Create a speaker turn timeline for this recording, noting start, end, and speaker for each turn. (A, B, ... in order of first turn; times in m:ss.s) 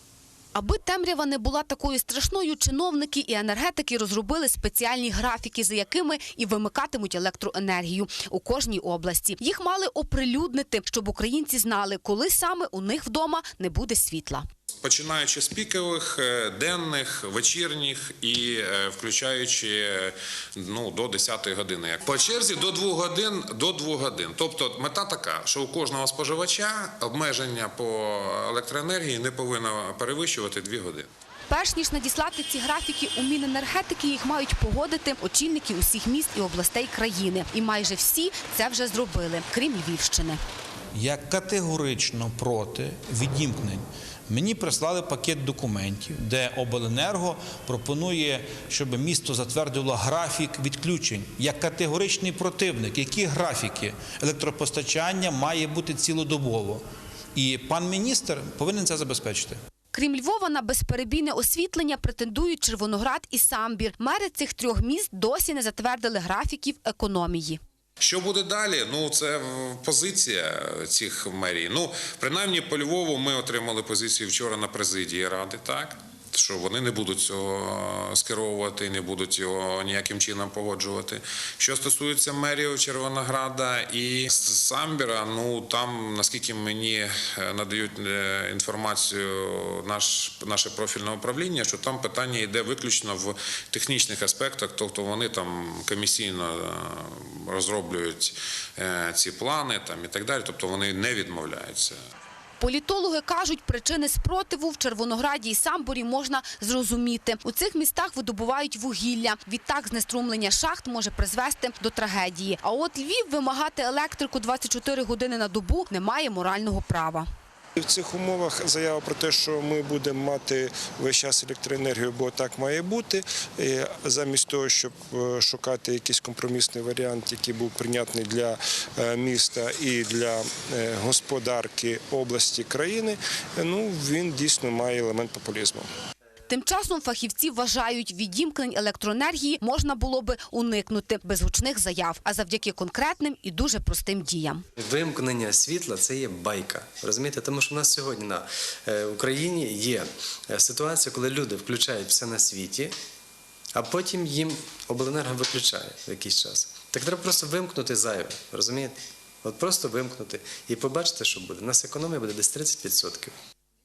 0:00.5-0:14.4 A
0:14.8-0:31.1 B
0:31.5-0:40.4 A
0:40.9-0:56.8 C
0:57.3-0:59.6 C
0:59.9-1:07.6 A
1:08.0-1:42.0 B
1:42.6-1:57.3 A
1:57.8-2:15.8 D
2:16.5-2:24.6 A
2:24.8-2:32.9 E
2:33.7-2:43.4 E